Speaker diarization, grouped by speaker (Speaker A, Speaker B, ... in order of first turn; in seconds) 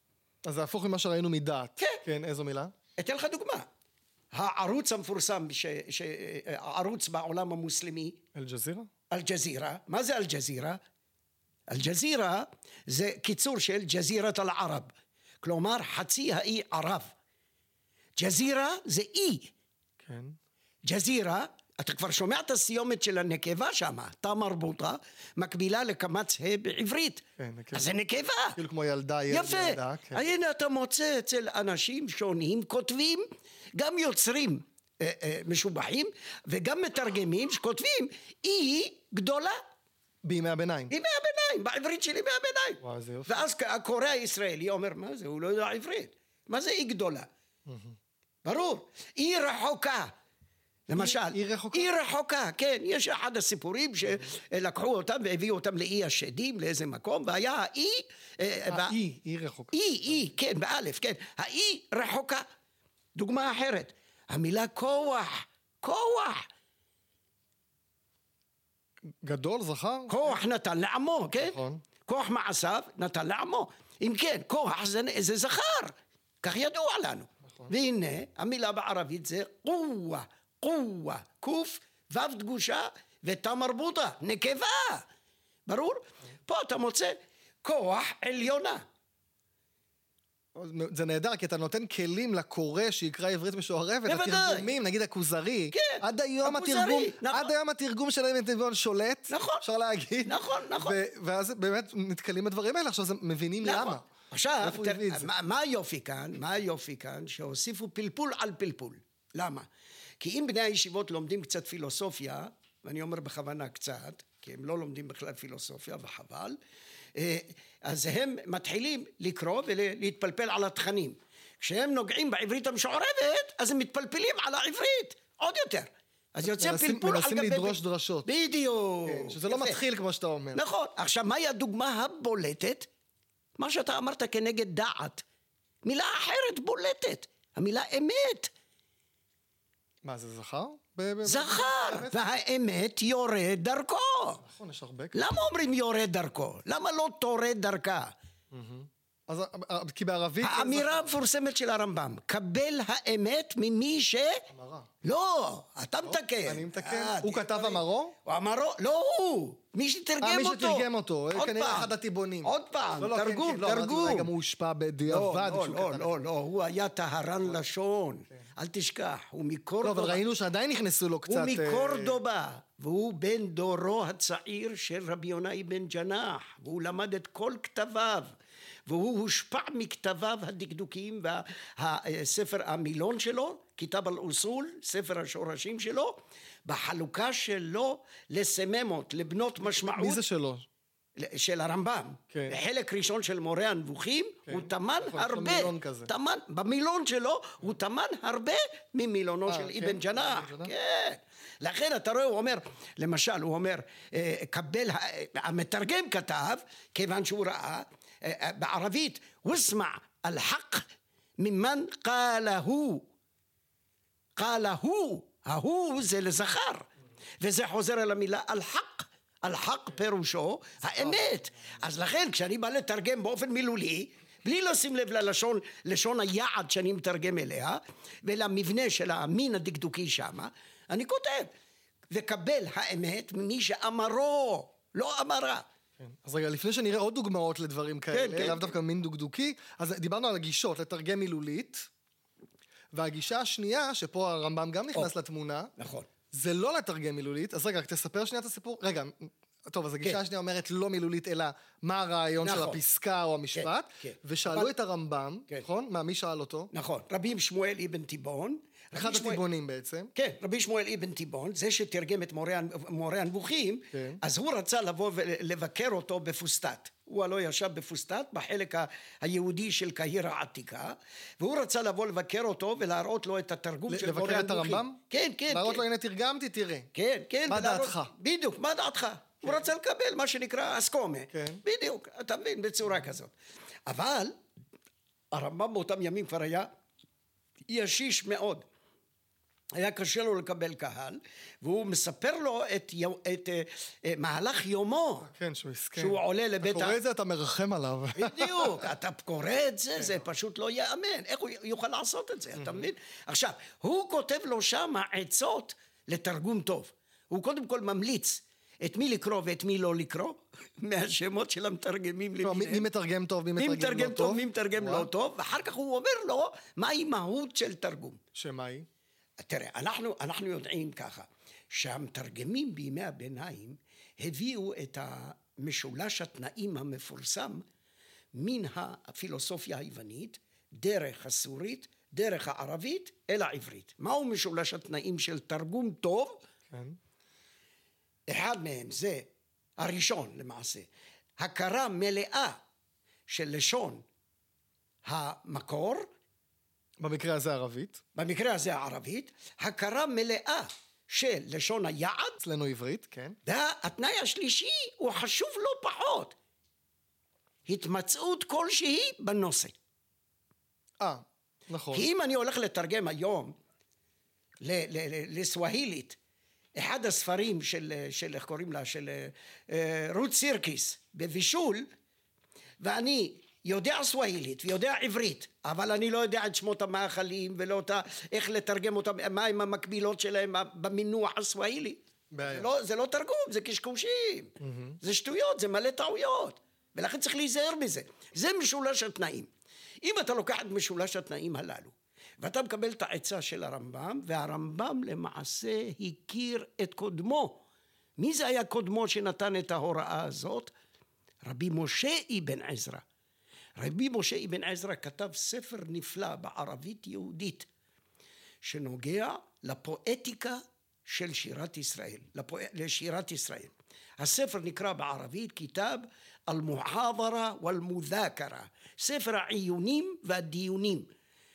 Speaker A: 0.4-2.7, 8.3-8.9, 20.0-20.4, 27.4-27.9, 28.5-30.2, 40.2-40.9, 42.8-43.5, 47.7-48.0, 51.0-51.9, 58.7-59.8, 69.2-70.3, 71.4-71.8, 90.5-104.1, 104.6-105.3, 126.4-128.3, 129.1-130.6, 140.0-142.2, 144.4-145.3, 148.5-151.2, 154.5-154.9, 156.0-158.1, 160.2-166.1, 169.8-172.2, 189.8-190.7, 192.3-192.6, 194.5-196.1, 199.5-200.7, 221.0-221.3, 236.0-241.9, 242.9-245.7, 246.3-256.7, 258.9-260.1, 263.9-264.2, 273.9-276.9, 277.5-278.1, 281.3-281.6, 295.2-298.9, 312.4-315.1, 318.3-318.9, 336.7-337.0, 347.0-348.0, 352.4-353.4, 361.0-362.1, 382.3-382.7, 384.6-385.0
Speaker B: 3.0-3.7, 4.3-8.2, 9.1-10.8, 11.7-14.9, 15.4-17.1, 18.2-19.5, 20.9-28.6, 29.3-39.6, 40.9-47.3, 48.4-50.1, 50.9-59.0, 59.7-62.4, 63.1-66.4, 70.1-85.0, 85.7-88.8, 94.0-94.7, 95.7-97.5, 99.3-99.6, 100.2-101.0, 103.6-109.7, 110.2-116.6, 117.1-129.8, 130.5-132.9, 133.6-135.2, 135.8-138.5, 141.2-144.4, 145.1-148.1, 150.4-154.4, 155.0-161.9, 162.4-164.3, 165.1-170.2, 171.3-178.3, 178.9-190.2, 191.2-210.8, 211.4-213.1, 214.4-216.9, 217.4-231.5, 232.1-235.7, 238.1-238.7, 245.8-246.1, 252.4-252.8, 253.5-254.7, 256.7-259.4, 260.1-275.8, 276.9-283.3, 283.9-284.4, 285.3-286.7, 287.7-288.6, 289.7-295.3, 296.0-297.0, 298.1-312.9, 313.6-318.2, 319.4-327.6, 328.3-336.4, 338.3-342.6, 343.3-344.0, 345.0-346.1, 348.1-352.4, 353.4-356.3, 357.6-359.7, 361.9-363.5, 364.6-366.2, 366.8-371.9, 372.8-389.5, 390.0-397.6, 398.2-400.7, 401.4-403.0, 403.8-407.7, 408.6-421.1